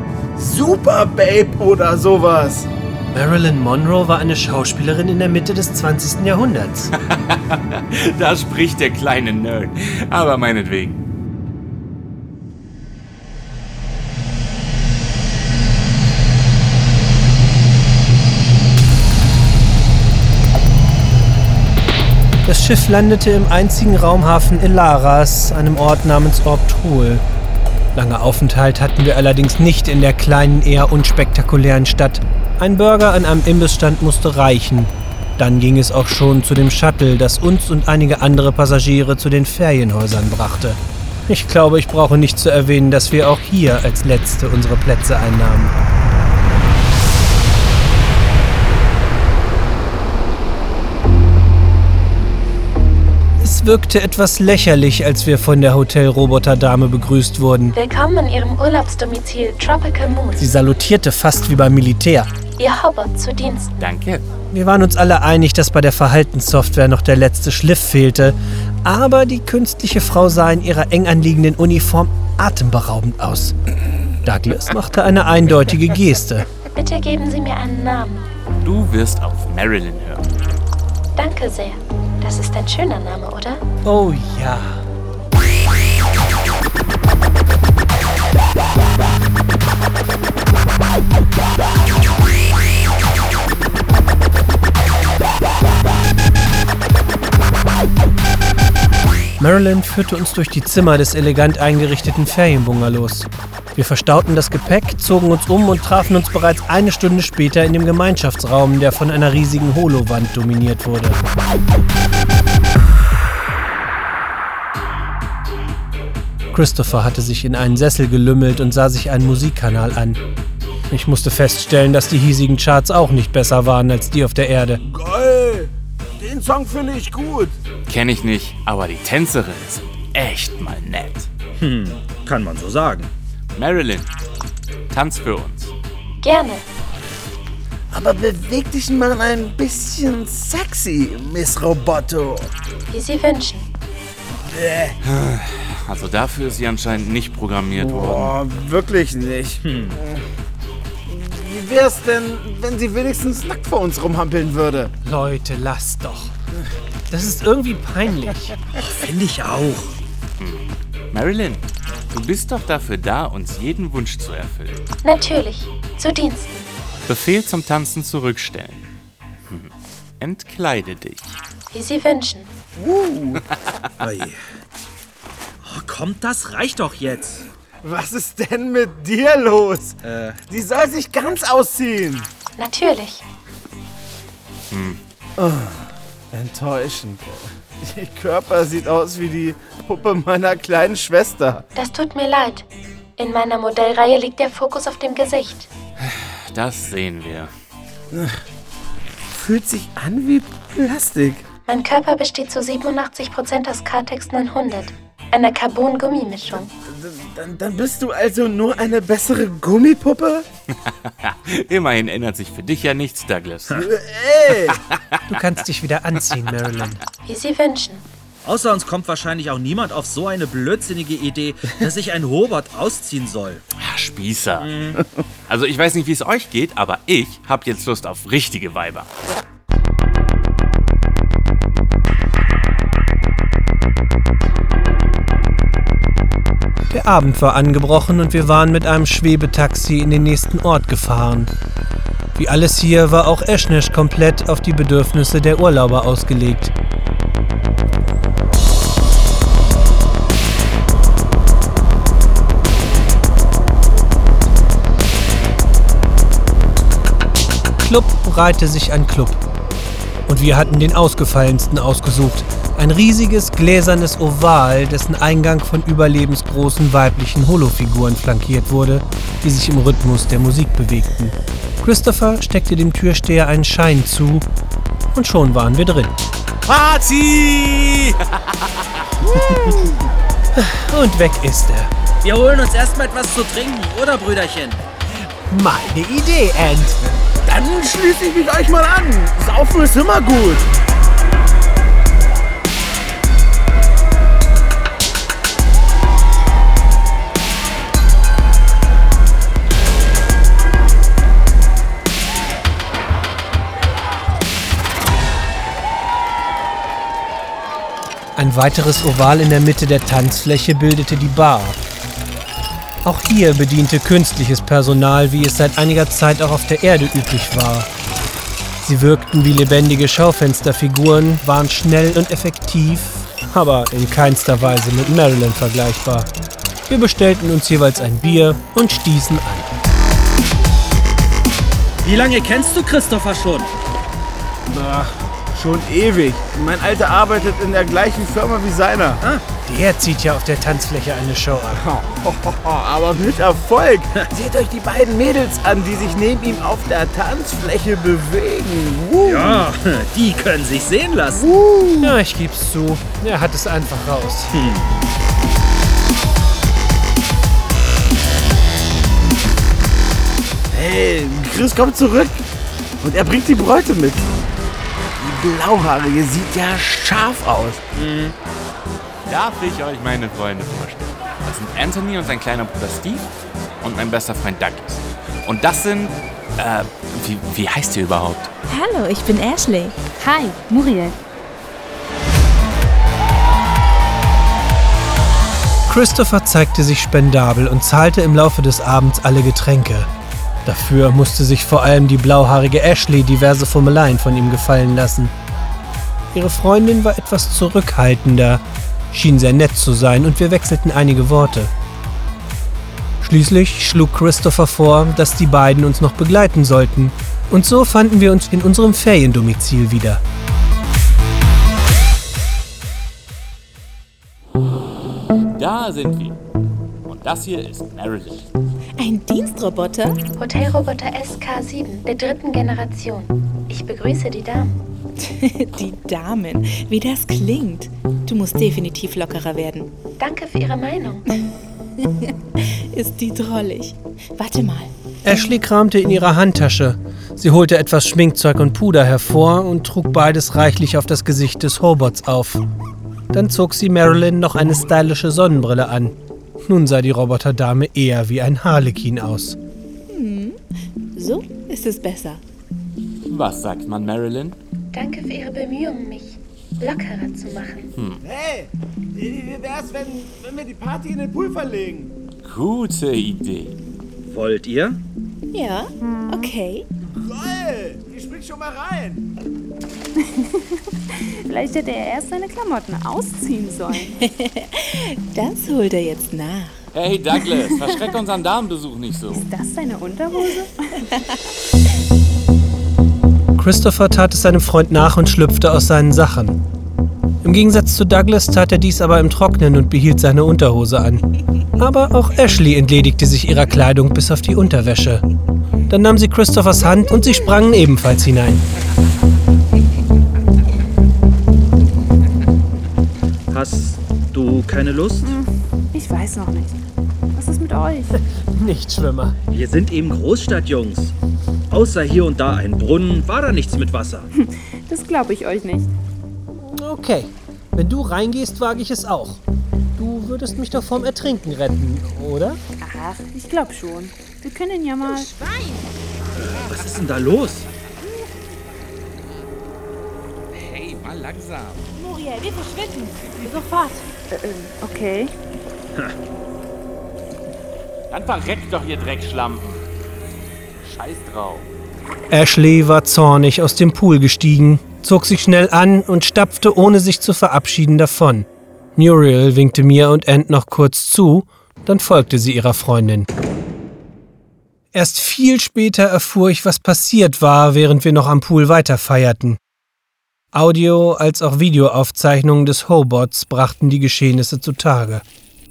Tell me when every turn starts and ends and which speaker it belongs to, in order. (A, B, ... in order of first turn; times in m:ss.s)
0:00.4-0:02.7 A
0:03.1-0:06.9 B
0:07.0-0:11.0 C
0:22.4-0:27.2 B
0:27.9-0:45.7 B
0:53.4-0:57.8 B
0:57.7-1:00.5 D
1:00.4-1:02.3 B
1:02.6-1:03.8 D
1:03.8-1:04.2 C
1:04.5-1:13.5 B
1:14.2-1:16.5 B
1:16.7-1:18.2 D
1:18.6-1:20.3 C
1:21.2-1:23.6 D
1:23.8-1:24.8 B
1:39.4-1:51.2 B
1:56.5-2:00.2 B
2:00.9-2:04.8 B
2:04.9-2:07.6 A
2:07.9-2:11.3 C
2:11.6-2:13.1 E
2:13.5-2:14.1 C
2:14.9-2:15.7 C
2:16.2-2:16.7 D
2:17.9-2:22.5 A
2:22.9-2:23.7 D
2:24.4-2:24.9 A
2:25.0-2:28.4 C
2:27.7-2:30.2 A
2:29.6-2:30.0 E
2:31.1-2:34.9 A
2:35.0-2:36.3 B
2:37.1-2:38.5 B
2:38.8-2:39.9 E
2:40.4-2:44.8 C
2:45.0-2:46.7 D
2:47.0-2:48.9 C
2:49.5-2:51.4 C
2:51.7-2:52.5 D
2:52.8-2:53.4 A
2:54.0-2:54.4 E
2:55.6-2:57.4 E
2:57.8-3:00.0 A
3:00.0-3:00.4 E
3:00.5-3:02.3 A
3:02.6-3:03.2 D
3:04.7-3:05.0 C
3:05.4-3:11.6 A
3:11.7-3:12.6 D
3:13.2-3:15.7 D
3:16.0-3:17.5 C
3:19.3-3:21.4 A
3:21.7-3:26.7 D
3:26.8-3:30.4 A
3:30.8-3:33.8 C
3:33.7-3:34.8 A
3:34.7-3:35.3 C
3:35.3-3:37.0 B
3:37.2-3:38.0 D
3:38.4-3:43.6 E
3:43.8-3:44.7 C
3:44.6-3:45.0 E
3:45.5-3:49.1 C
3:56.9-4:01.5 B
4:02.3-4:06.7 B
4:17.8-4:19.4 B
4:20.3-4:34.5 B
4:35.1-4:36.2 B
4:36.7-4:39.0 C
4:40.5-4:41.9 B
4:42.2-4:44.8 E
4:45.5-4:47.0 B
4:47.4-4:50.6 A
5:08.4-5:11.8 B
5:13.0-5:17.9 B
5:18.8-5:26.3 B
5:26.9-5:29.7 B
5:32.0-5:33.7 E
5:34.7-5:39.2 A
5:39.6-5:41.8 B
5:41.7-5:49.7 A
5:49.2-5:51.5 E
5:51.3-5:52.1 A
5:52.0-5:54.5 B
5:54.5-5:54.9 E
6:00.7-6:02.5 A
6:03.0-6:04.4 A
6:05.2-6:07.8 A
6:07.9-6:08.3 E
6:09.3-6:13.3 C
6:13.8-6:18.5 C
6:18.6-6:20.0 F
6:20.2-6:21.2 G
6:25.9-6:30.1 B
6:30.6-6:35.3 B
6:36.3-6:41.7 B
6:43.2-6:50.2 B
6:55.6-6:56.4 C
6:57.0-6:58.5 C
6:59.0-7:00.2 F
7:00.4-7:04.8 D
7:05.2-7:09.9 F
7:10.2-7:11.2 D
7:12.0-7:14.9 F
7:15.2-7:22.6 B
7:23.3-7:26.1 B
7:26.6-7:29.6 B
7:30.1-7:30.6 F
7:31.1-7:32.4 F
7:33.2-7:34.6 C
7:34.9-7:37.9 D
7:38.2-7:42.1 A
7:42.4-7:43.8 C
7:44.3-7:45.0 E
7:45.5-7:46.8 F
7:46.0-7:46.5 G
7:47.2-7:49.2 A
7:50.2-7:54.2 G
7:54.2-7:56.8 F
7:56.9-7:59.4 C
7:59.3-8:01.0 G
8:03.6-8:06.6 B
8:07.4-8:11.2 B
8:11.8-8:15.2 B
8:15.9-8:18.6 B
8:23.5-8:25.3 E
8:25.2-8:26.8 G
8:27.3-8:28.2 G
8:28.1-8:29.4 B
8:29.5-8:31.1 E
8:31.7-8:34.3 E
8:34.4-8:35.9 G
8:36.6-8:39.4 B
8:40.0-8:42.6 B
8:42.8-8:45.3 G
8:46.4-8:47.7 E
8:50.5-8:51.9 C
8:52.0-8:54.0 F
8:54.3-8:55.3 G
8:58.1-8:59.8 C
9:00.8-9:01.7 C
9:02.3-9:13.3 B
9:14.9-9:19.6 B
9:20.5-9:25.2 B